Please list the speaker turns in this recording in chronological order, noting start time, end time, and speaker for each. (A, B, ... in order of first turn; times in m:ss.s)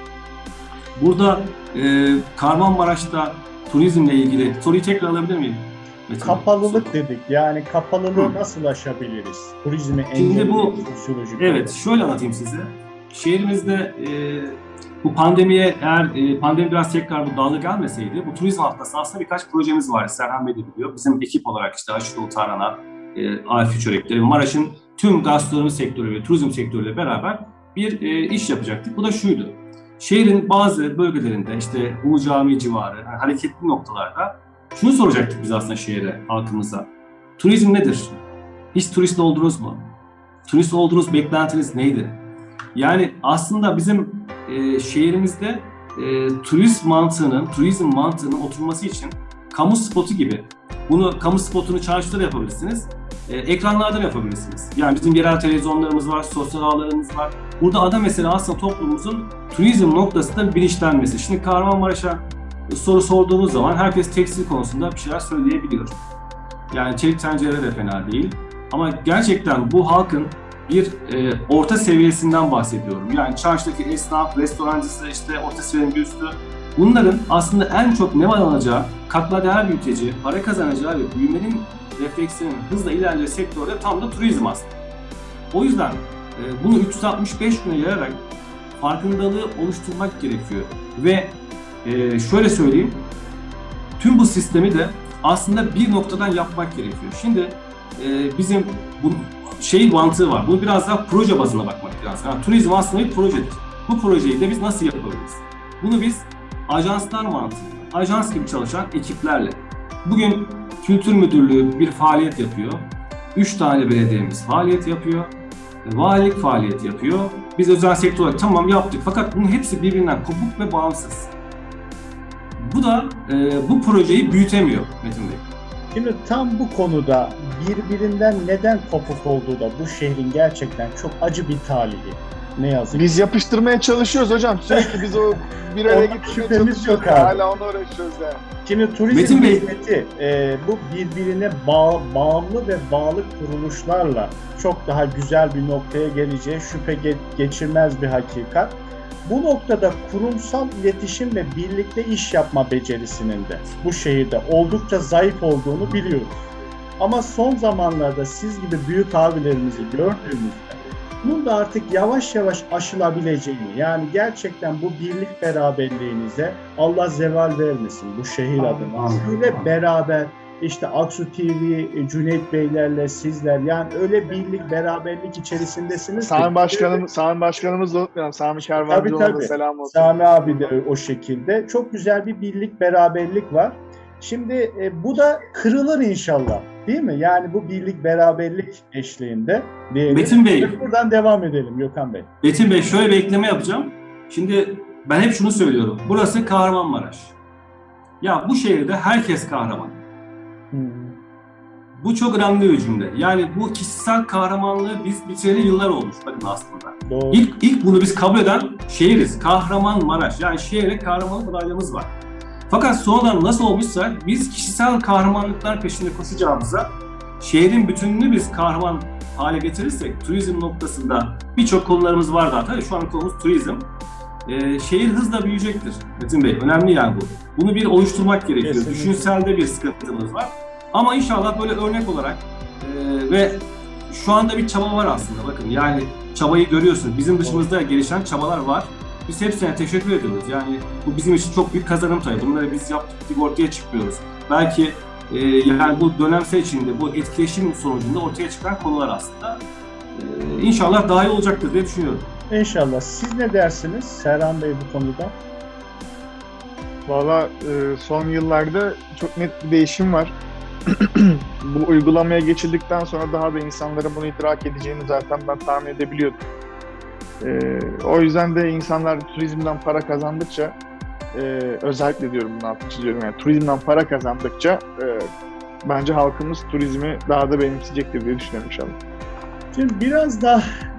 0:01.0-0:07.0 A
0:06.2-0:11.8 B
0:10.2-0:10.8 A
0:11.4-0:38.2 A
0:38.7-0:39.9 A
0:40.5-0:42.2 A
0:42.7-1:06.0 A
1:06.7-1:24.7 A
1:25.5-1:28.2 A
1:28.8-1:33.1 A
1:34.0-1:55.3 A
1:55.8-2:01.3 A
2:02.6-2:05.4 A
2:05.9-2:13.2 B
2:12.9-2:18.4 C
2:15.8-2:17.4 B
2:18.6-2:57.0 B
2:19.1-2:19.7 A
2:56.2-3:00.7 C
2:58.9-3:12.3 B
3:10.1-3:10.8 A
3:12.4-3:17.3 A
3:18.2-3:20.0 A
3:20.7-3:21.2 B
3:21.9-3:32.1 A
3:27.1-3:27.4 B
3:32.7-3:43.9 A
3:44.4-4:09.6 A
3:48.6-3:49.3 B
4:10.1-4:12.3 A
4:12.5-4:15.4 B
4:17.1-4:20.3 C
4:20.8-4:26.4 C
4:27.4-4:30.7 C
4:31.3-4:35.3 C
4:35.8-4:39.0 C
4:39.7-4:40.6 B